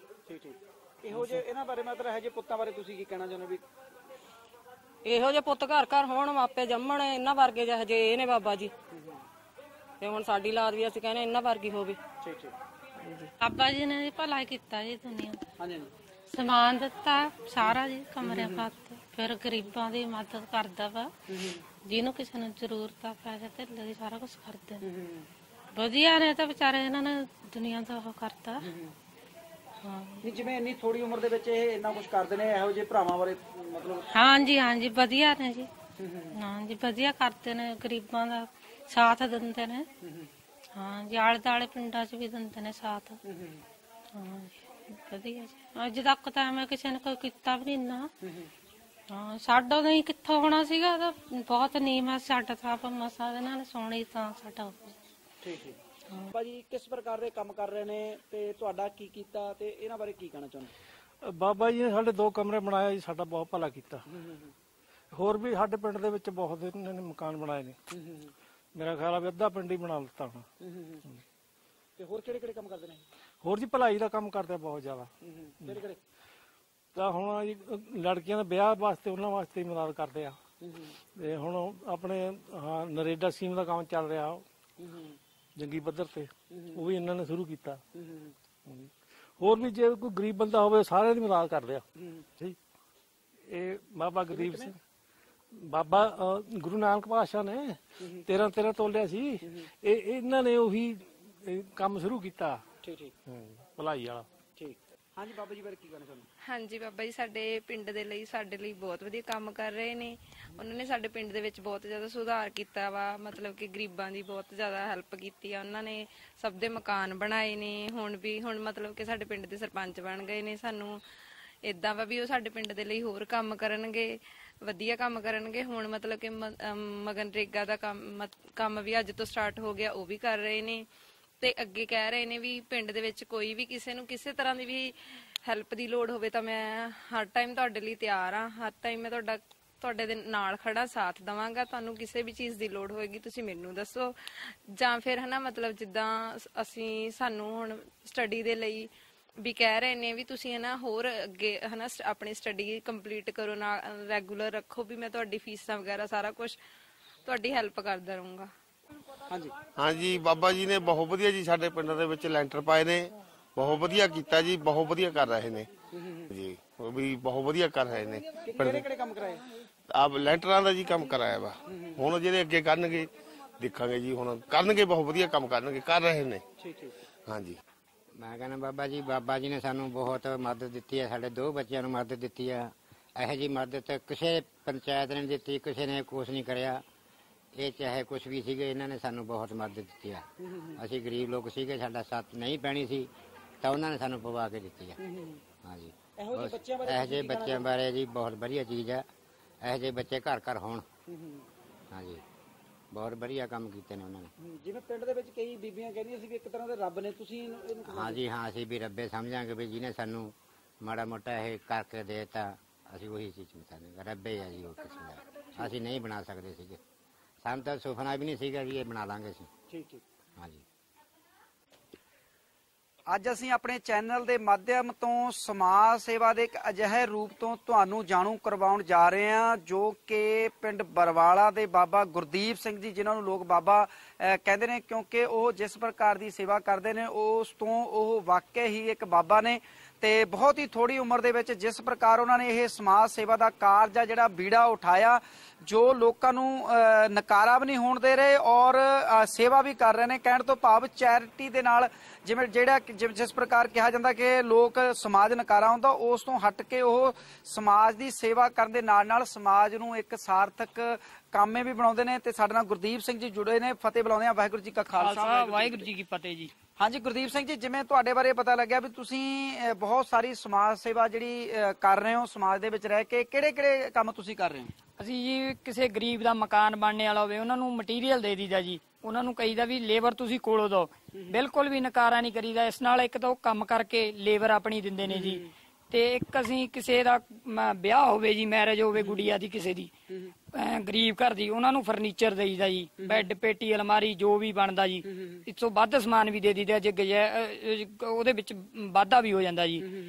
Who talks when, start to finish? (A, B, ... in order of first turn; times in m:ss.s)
0:00.3-0:03.6 A
0:01.1-0:01.4 B
0:05.0-0:08.7 B
0:10.0-0:12.0 B
0:12.2-0:12.5 A
0:13.0-0:13.3 B
0:13.4-0:15.4 C
0:15.6-0:15.9 A
0:16.3-0:21.1 C
0:17.6-0:18.7 A
0:21.9-0:24.8 C
0:24.9-0:25.2 A
0:25.8-0:28.7 C
0:29.8-0:30.2 C
0:30.2-0:34.1 A
0:34.1-0:35.7 C
0:36.0-0:36.3 A
0:36.3-0:39.9 C
0:40.8-0:43.2 C
0:44.2-0:48.1 C
0:49.1-0:54.9 C
0:55.4-0:55.8 A
0:56.3-1:00.7 A
1:01.2-1:04.0 D
1:05.1-1:07.8 D
1:08.0-1:08.3 A
1:08.8-1:10.5 D
1:10.6-1:11.0 A
1:12.0-1:13.0 A
1:13.4-1:15.1 D
1:15.2-1:16.0 A
1:17.0-1:20.4 D
1:21.2-1:24.4 D
1:25.6-1:27.8 D
1:28.0-1:28.3 A
1:29.4-1:31.8 D
1:33.5-1:34.8 D
1:34.3-1:34.7 A
1:35.6-1:42.6 D
1:42.8-1:43.1 A
1:43.3-1:44.2 D
1:44.6-1:46.3 A
1:46.4-2:01.0 E
2:01.6-2:10.9 E
2:11.4-2:36.6 E
2:37.2-2:38.5 E
2:39.8-2:45.7 F
2:46.0-2:46.2 A
2:46.3-2:48.8 F
2:48.5-2:49.5 A
2:49.9-2:56.4 F
2:51.7-2:52.0 A
2:56.6-2:56.9 A
2:57.3-2:57.6 F
2:58.2-3:06.8 G
3:07.6-3:10.2 G
3:10.5-3:10.8 A
3:10.8-3:13.1 G
3:13.6-3:15.0 G
3:15.0-3:15.4 A
3:15.6-3:19.1 G
3:16.2-3:17.7 A
3:19.6-3:20.8 G
3:21.1-3:21.4 A
3:21.9-3:22.2 G
3:22.9-3:24.3 G
3:24.4-3:28.2 A
3:27.9-3:36.8 G
3:37.4-3:39.5 G
3:39.7-3:40.0 A
3:43.1-4:25.9 A
4:25.0-4:26.5 H
4:26.8-4:34.7 A
4:35.0-4:49.9 H
4:45.1-4:45.4 A
4:50.5-4:59.9 H
4:55.1-4:55.4 A